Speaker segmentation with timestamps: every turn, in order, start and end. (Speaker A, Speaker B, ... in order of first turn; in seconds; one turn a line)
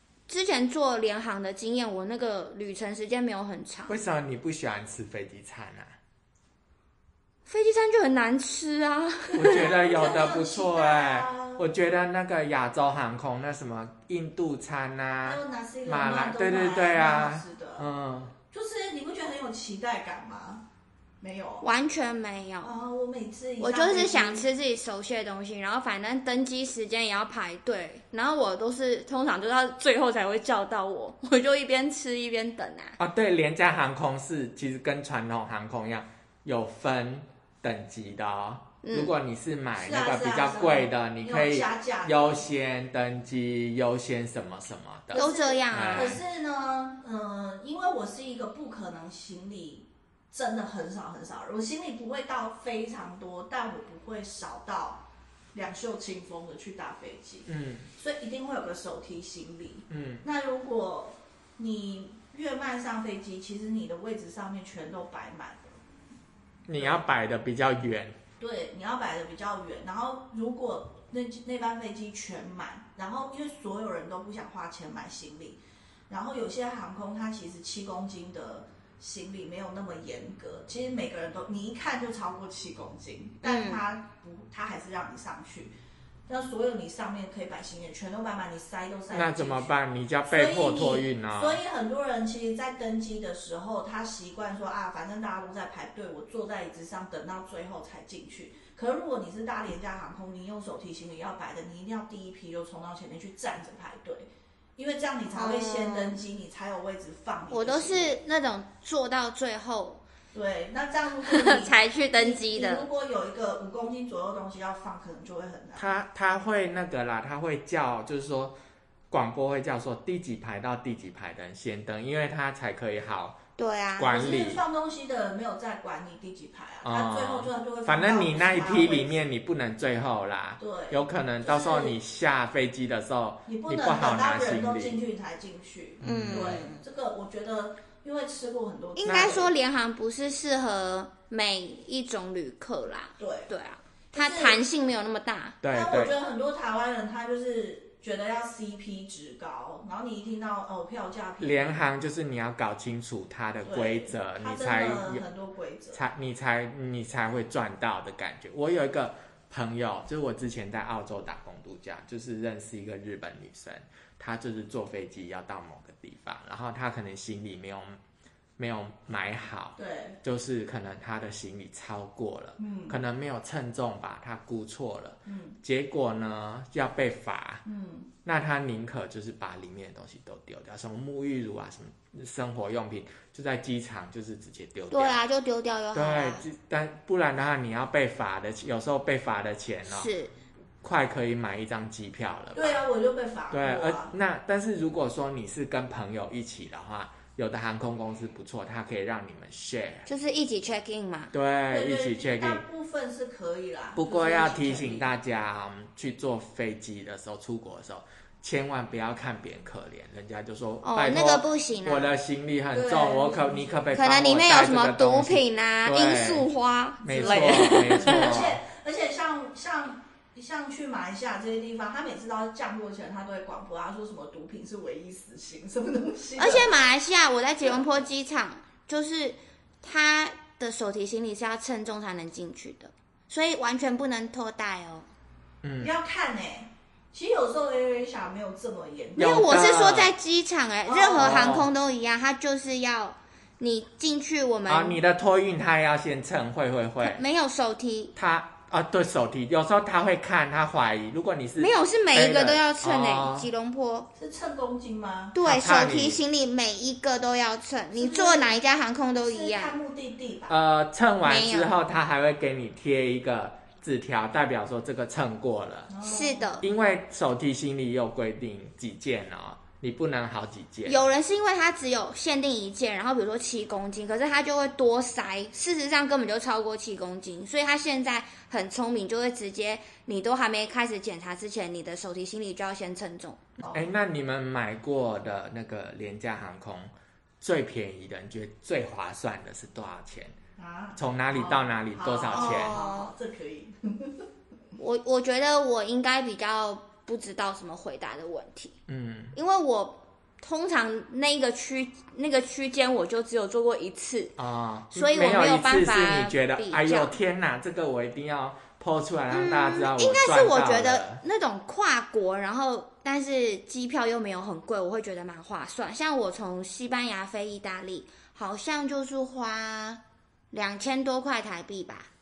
Speaker A: 0.3-4.0
Speaker B: 3.9-6.0
Speaker A: 7.5-9.9
Speaker B: 9.3-18.3
Speaker C: 9.9-11.7
Speaker C: 15.2-17.9
Speaker C: 18.5-20.6
Speaker C: 21.2-21.7
Speaker A: 21.6-22.7
Speaker C: 22.6-24.5
Speaker A: 23.6-33.0
Speaker B: 33.0-46.2
Speaker A: 38.8-39.1
Speaker C: 39.8-42.5
Speaker A: 45.1-46.2
Speaker C: 45.1-65.8
Speaker B: 57.5-57.9
Speaker B: 59.9-60.2
Speaker B: 66.7-68.2
Speaker C: 66.8-67.0
Speaker C: 68.4-85.7
Speaker A: 83.4-83.8
Speaker C: 86.3-89.7
Speaker B: 89.1-91.6
Speaker C: 90.3-108.2
Speaker A: 105.3-106.2
Speaker A: 107.5-110.0
Speaker C: 110.3-115.9
Speaker A: 111.2-112.9
Speaker B: 115.8-118.6
Speaker B: 119.1-123.4
Speaker A: 123.6-124.1
Speaker B: 124.0-124.6
Speaker C: 124.1-129.2
Speaker B: 126.8-135.0
Speaker C: 130.6-132.0
Speaker C: 133.5-139.5
Speaker B: 136.0-136.7
Speaker A: 136.0-136.8
Speaker A: 139.0-145.6
Speaker B: 139.1-139.5
Speaker C: 143.2-143.5
Speaker C: 144.1-144.6
Speaker B: 145.6-146.1
Speaker C: 145.7-151.8
Speaker B: 151.4-155.2
Speaker C: 153.6-156.0
Speaker B: 155.9-168.0
Speaker B: 168.6-177.6
Speaker C: 169.8-170.2
Speaker C: 172.6-173.0
Speaker C: 175.3-175.6
Speaker C: 177.7-178.1
Speaker B: 178.2-185.2
Speaker A: 184.9-186.4
Speaker B: 185.9-190.1
Speaker A: 189.9-190.3
Speaker B: 190.8-192.8
Speaker C: 192.6-194.1
Speaker B: 193.5-200.1
Speaker A: 200.1-201.3
Speaker B: 201.3-202.6
Speaker C: 201.7-205.1
Speaker B: 204.0-216.5
Speaker A: 210.8-212.1
Speaker C: 212.7-213.9
Speaker A: 213.9-218.5
Speaker B: 217.0-218.6
Speaker C: 217.1-226.8
Speaker A: 226.4-235.1
Speaker B: 235.6-235.9
Speaker C: 235.8-239.7
Speaker B: 239.2-240.1
Speaker A: 239.2-245.0
Speaker C: 240.9-241.7
Speaker B: 241.1-241.7
Speaker B: 244.7-247.2
Speaker A: 247.0-248.2
Speaker B: 248.2-253.5
Speaker A: 251.6-254.1
Speaker C: 254.2-255.3
Speaker A: 255.3-259.8
Speaker B: 255.4-256.2
Speaker C: 257.9-258.6
Speaker C: 259.2-260.6
Speaker B: 260.5-265.9
Speaker A: 261.2-261.7
Speaker C: 265.9-266.5
Speaker A: 266.1-266.7
Speaker B: 266.6-271.0
Speaker A: 270.9-283.4
Speaker C: 283.6-283.9
Speaker B: 283.7-290.4
Speaker C: 290.6-294.3
Speaker B: 291.0-292.8
Speaker A: 292.3-293.1
Speaker A: 294.8-298.8
Speaker B: 298.9-299.4
Speaker A: 299.3-304.3
Speaker B: 304.4-311.2
Speaker A: 304.9-307.2
Speaker A: 309.3-320.0
Speaker A: 320.5-322.1